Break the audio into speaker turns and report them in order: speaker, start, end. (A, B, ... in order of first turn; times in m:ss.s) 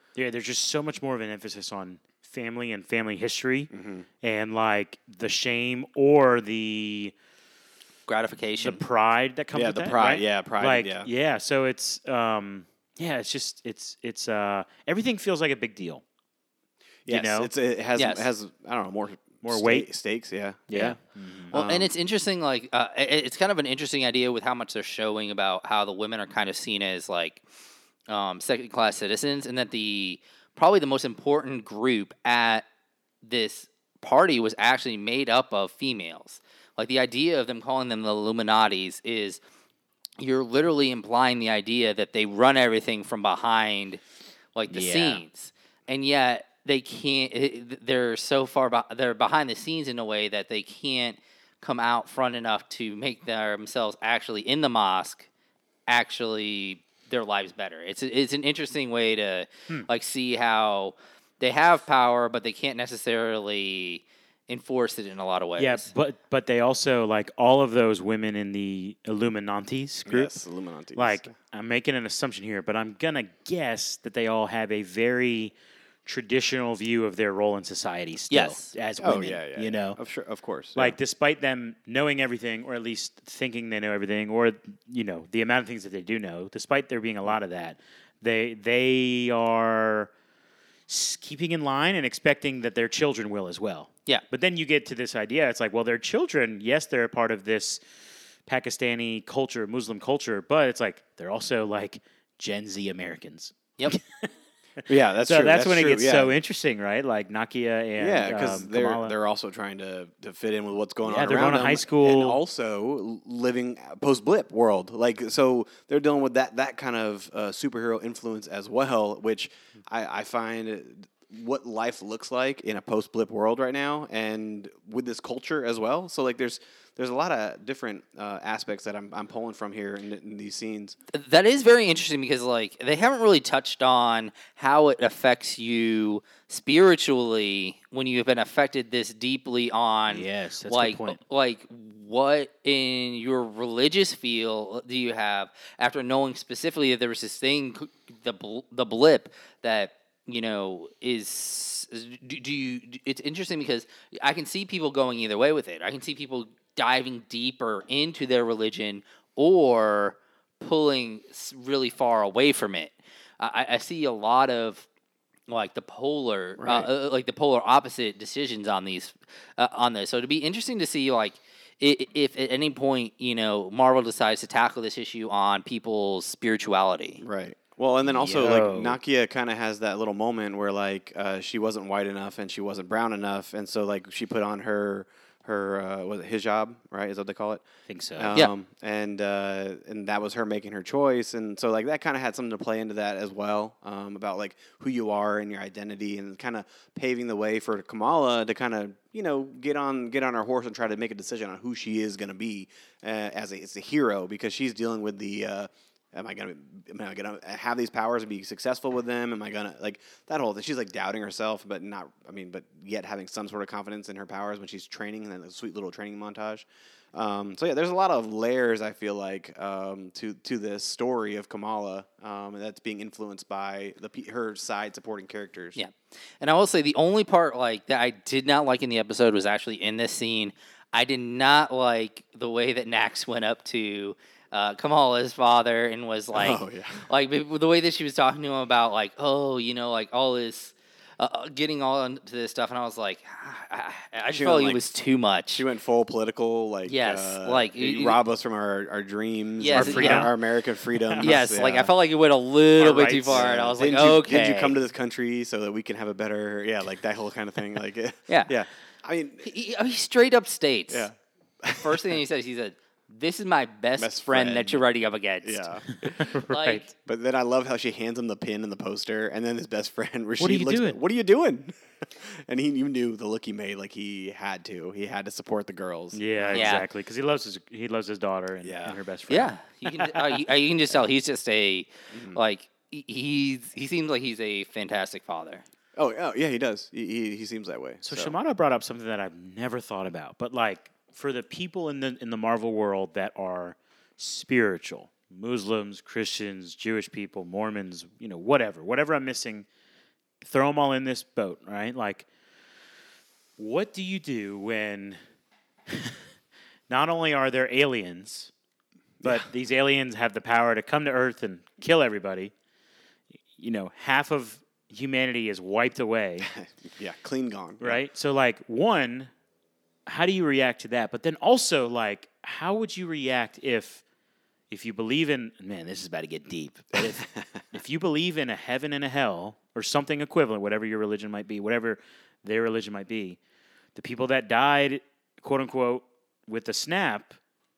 0:00.2-0:03.7 A
0:03.7-0:04.1 B
0:04.2-0:07.1 A
0:08.1-0:08.8 C
0:08.6-0:16.0 A
0:09.5-0:11.1 B
0:17.0-0:21.0 B
0:17.1-0:17.5 A
0:18.0-0:18.3 C
0:19.4-0:19.9 A
0:20.7-0:21.5 A
0:21.5-0:21.9 B
0:21.5-0:27.4 C
0:28.1-0:32.6 C
0:33.2-0:39.4 C
0:40.2-0:44.0 C
0:44.6-0:55.3 C
0:44.7-0:45.2 A
0:55.9-1:05.9 C
1:05.6-1:10.3 A
1:10.1-1:11.3 B
1:11.0-1:15.5 A
1:16.1-1:20.0 A
1:18.3-1:18.7 C
1:19.0-1:21.0 B
1:20.8-1:30.1 A
1:30.9-1:37.8 A
1:38.5-1:44.3 A
1:44.8-1:49.2 A
1:44.9-1:46.4 B
1:48.0-2:11.0 B
1:51.0-1:52.4 A
2:11.1-2:44.9 C
2:20.1-2:21.2 A
2:45.5-2:57.2 C
2:46.6-2:46.9 B
2:57.2-3:07.6 B
2:58.1-2:59.0 A
3:07.9-3:08.4 A
3:08.2-3:45.8 B
3:45.8-4:05.7 C
3:56.3-3:57.1 B
4:04.3-4:04.9 B
4:05.5-4:11.9 B
4:06.9-4:08.2 C
4:09.6-4:10.4 C
4:09.7-4:10.3 A
4:11.2-4:14.8 C
4:12.8-4:13.5 A
4:13.3-4:19.5 B
4:19.4-4:21.1 C
4:20.9-4:22.2 B
4:21.8-4:25.7 C
4:24.0-4:24.8 B
4:25.4-4:26.3 B
4:26.0-4:26.9 A
4:26.5-4:26.9 C
4:27.0-4:36.8 B
4:30.4-4:31.0 A
4:36.1-4:40.2 A
4:36.5-4:36.9 C
4:38.6-4:39.0 B
4:39.3-4:45.6 C
4:42.1-4:42.4 B
4:46.0-4:48.3 B
4:48.0-4:59.7 A
5:00.4-5:02.3 A
5:03.6-5:05.2 A
5:05.9-5:06.2 A
5:06.9-5:08.5 A
5:09.2-5:09.5 B
5:09.2-5:12.5 A
5:13.6-5:16.5 A
5:16.5-5:18.0 B
5:17.8-5:19.3 A
5:20.1-5:24.0 A
5:24.7-5:33.4 A
5:27.0-5:27.4 B
5:34.0-5:37.4 A